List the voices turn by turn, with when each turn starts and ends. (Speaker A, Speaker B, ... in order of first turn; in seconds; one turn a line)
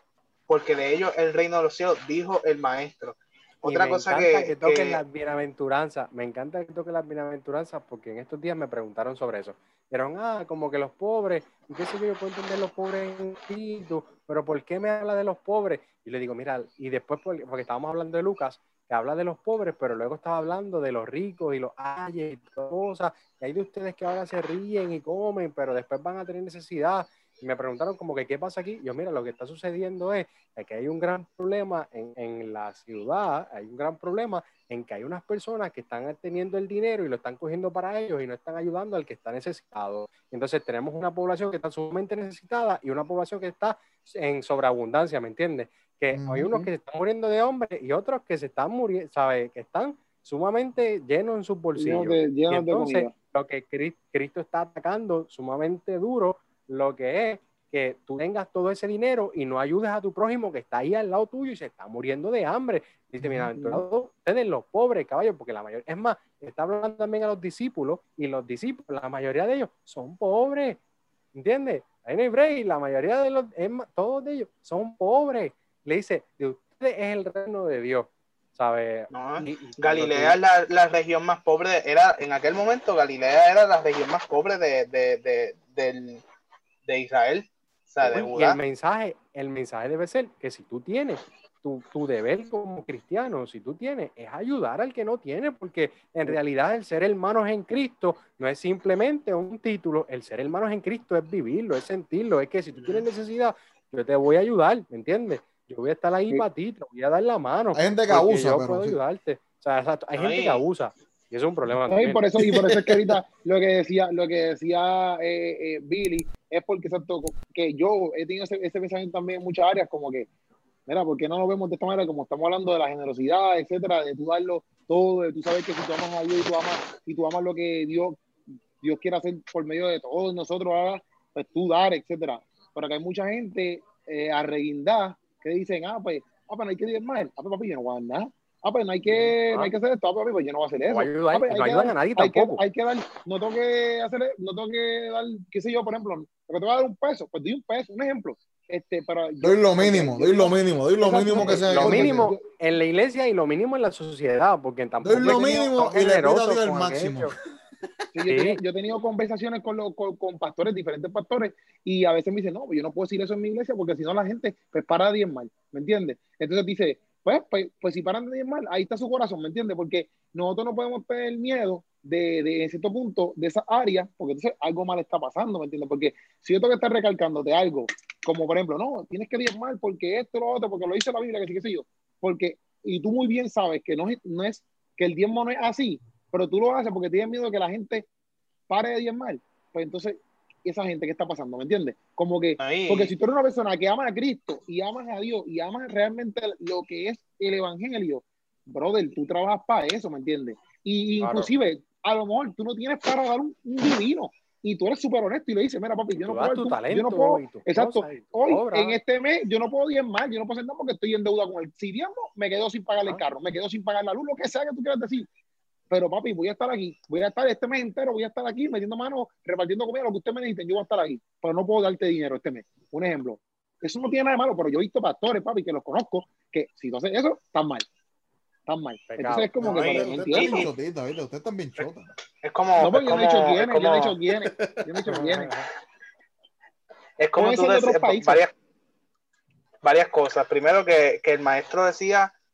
Speaker A: 0.5-5.0
Speaker B: 3.6-70.8
Speaker C: 46.1-46.5
Speaker D: 51.8-53.1
Speaker C: 63.2-63.5
Speaker D: 63.6-63.8
Speaker B: 71.3-80.4
Speaker A: 79.1-86.2
Speaker A: 86.9-88.6
Speaker B: 88.0-112.2
Speaker C: 107.8-109.0
Speaker A: 110.2-110.6
Speaker D: 111.9-120.3
Speaker C: 112.4-113.1
Speaker D: 120.9-128.2
Speaker D: 128.8-152.4
Speaker B: 139.1-139.7
Speaker B: 140.9-142.6
Speaker C: 149.4-152.3
Speaker B: 151.4-157.3
Speaker C: 155.0-157.4
Speaker D: 155.3-155.6
Speaker D: 158.1-188.1
Speaker B: 158.3-158.6
Speaker D: 188.7-215.3
Speaker A: 192.6-193.1
Speaker B: 201.2-201.5
Speaker B: 206.2-209.0
Speaker D: 215.9-227.9
Speaker D: 228.7-230.6
Speaker B: 229.1-229.6
Speaker C: 229.6-232.1
Speaker A: 229.6-230.7
Speaker A: 232.4-234.2
Speaker D: 232.8-235.5
Speaker C: 234.4-234.9
Speaker B: 235.1-235.7
Speaker A: 237.2-238.5
Speaker D: 237.4-238.4
Speaker A: 239.8-242.3